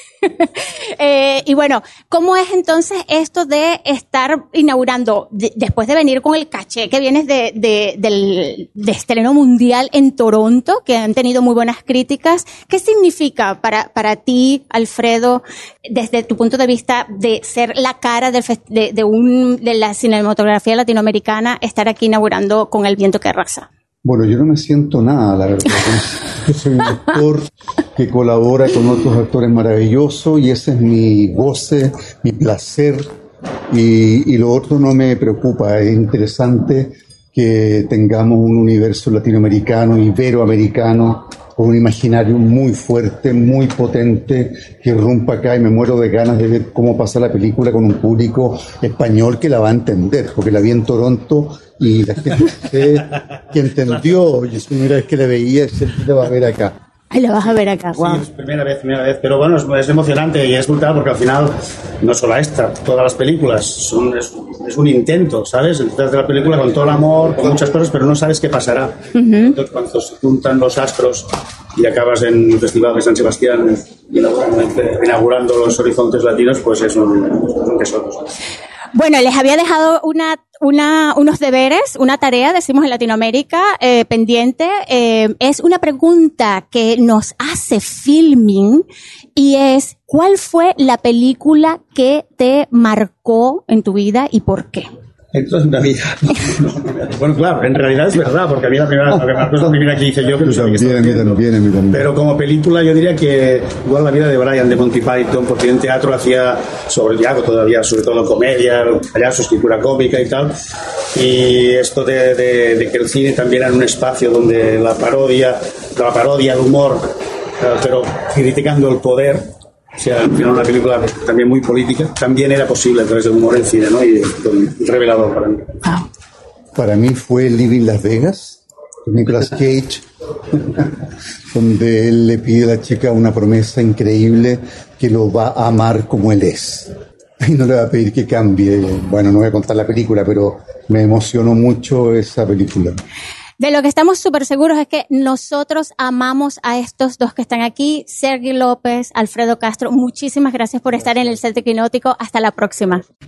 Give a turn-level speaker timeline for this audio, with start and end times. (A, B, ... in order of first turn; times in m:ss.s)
0:00.2-0:23.7 A
0:24.0-0:33.1 B
0:33.7-0:56.8 B
0:57.1-0:58.2 A
0:58.0-1:18.3 C
1:09.1-1:09.5 A
1:18.9-1:28.8 A
1:29.3-1:34.9 A
1:35.3-1:41.4 C
1:40.4-1:42.1 B
1:41.9-1:50.5 C
1:51.1-2:06.0 C
2:06.8-2:10.0 B
2:10.6-2:10.9 B
2:11.5-2:23.0 B
2:23.6-2:33.0 A